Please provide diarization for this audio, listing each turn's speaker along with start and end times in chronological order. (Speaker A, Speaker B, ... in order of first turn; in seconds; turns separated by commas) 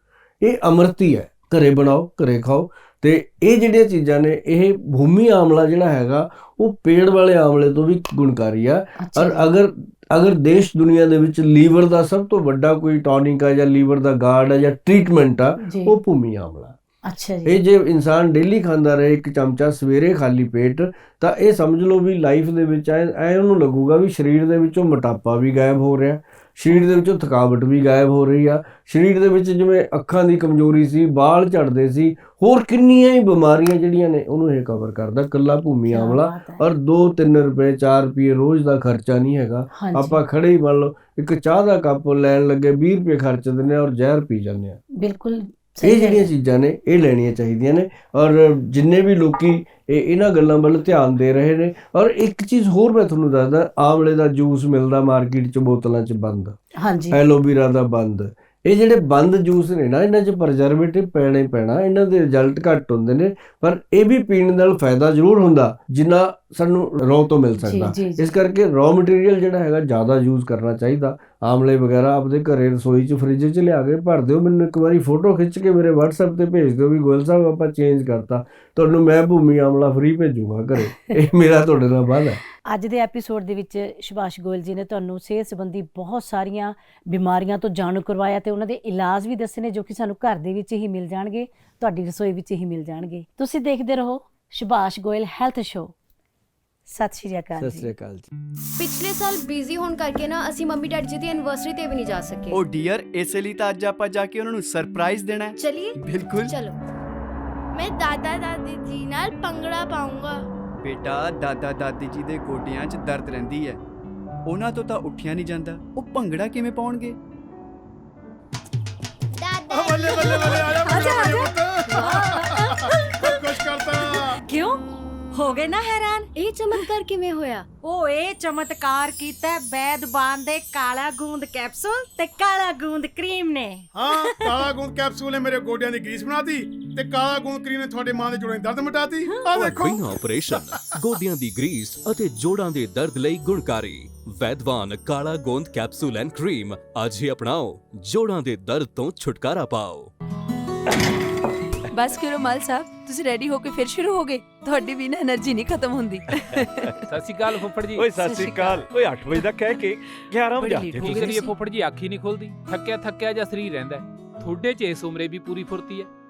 Speaker A: 0.4-16.8, Speaker B: 9.0-9.5, Speaker B: 15.6-16.0, Speaker B: 17.1-17.6, Speaker A: 17.5-44.8, Speaker B: 35.9-36.6, Speaker B: 39.8-40.2, Speaker B: 45.0-46.3, Speaker A: 45.8-56.6, Speaker B: 56.8-57.2, Speaker A: 57.1-82.4, Speaker B: 67.6-68.3, Speaker B: 80.8-81.1, Speaker B: 82.7-95.9, Speaker B: 96.9-97.9, Speaker A: 97.6-98.3, Speaker C: 98.8-102.6, Speaker D: 102.5-106.6, Speaker C: 105.6-106.8, Speaker E: 107.7-110.4, Speaker D: 110.8-113.8, Speaker D: 114.5-117.2, Speaker F: 119.7-124.4, Speaker C: 119.8-121.4, Speaker G: 121.0-121.3, Speaker C: 122.0-122.2, Speaker G: 122.0-123.5, Speaker G: 124.2-124.8, Speaker G: 125.3-126.9, Speaker C: 126.3-127.7, Speaker G: 127.8-134.7, Speaker F: 134.0-140.6, Speaker H: 139.5-150.1, Speaker I: 151.9-156.8, Speaker J: 157.1-158.1, Speaker K: 157.9-161.4, Speaker I: 158.2-158.9, Speaker I: 160.6-161.5, Speaker J: 160.9-166.1